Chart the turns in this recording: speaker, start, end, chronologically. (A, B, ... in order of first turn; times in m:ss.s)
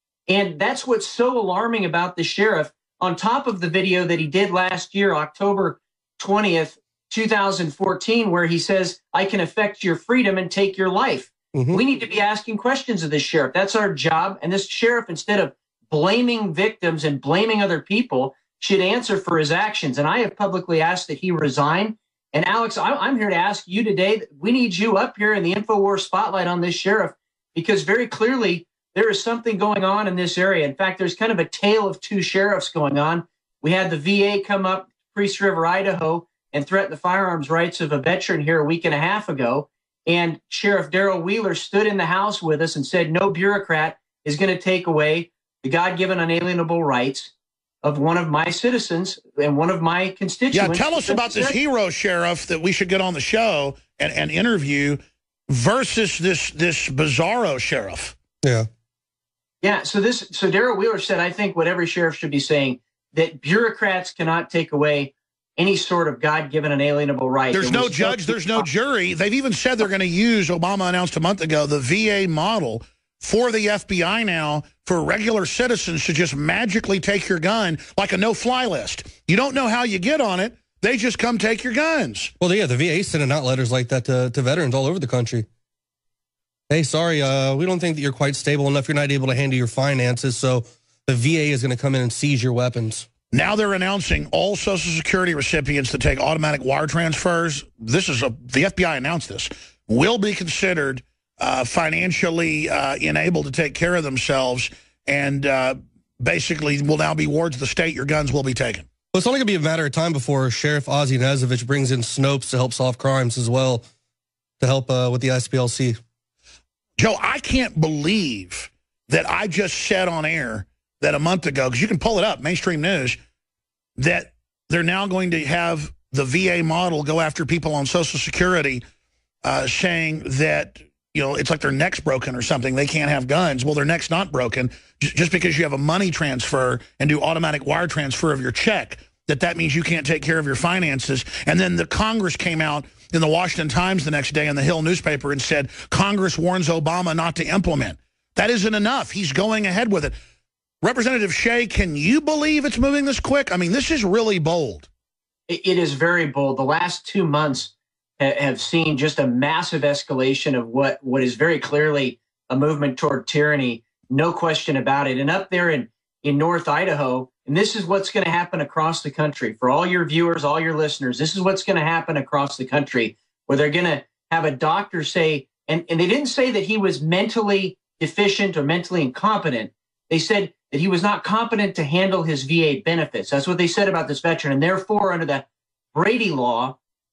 0:00.3-0:47.3 A
0:11.5-0:11.8 B
0:47.8-0:51.6 A
0:50.5-0:58.2 C
0:59.6-1:08.7 A
1:07.5-1:22.3 C
1:22.4-1:25.4 B
1:26.7-1:33.1 B
1:33.3-1:48.9 C
1:49.1-1:53.8 B
1:54.6-1:56.0 B
1:57.0-2:03.2 C
2:04.0-2:08.8 C
2:09.4-2:30.1 C
2:30.8-2:34.9 C
2:35.5-3:06.8 A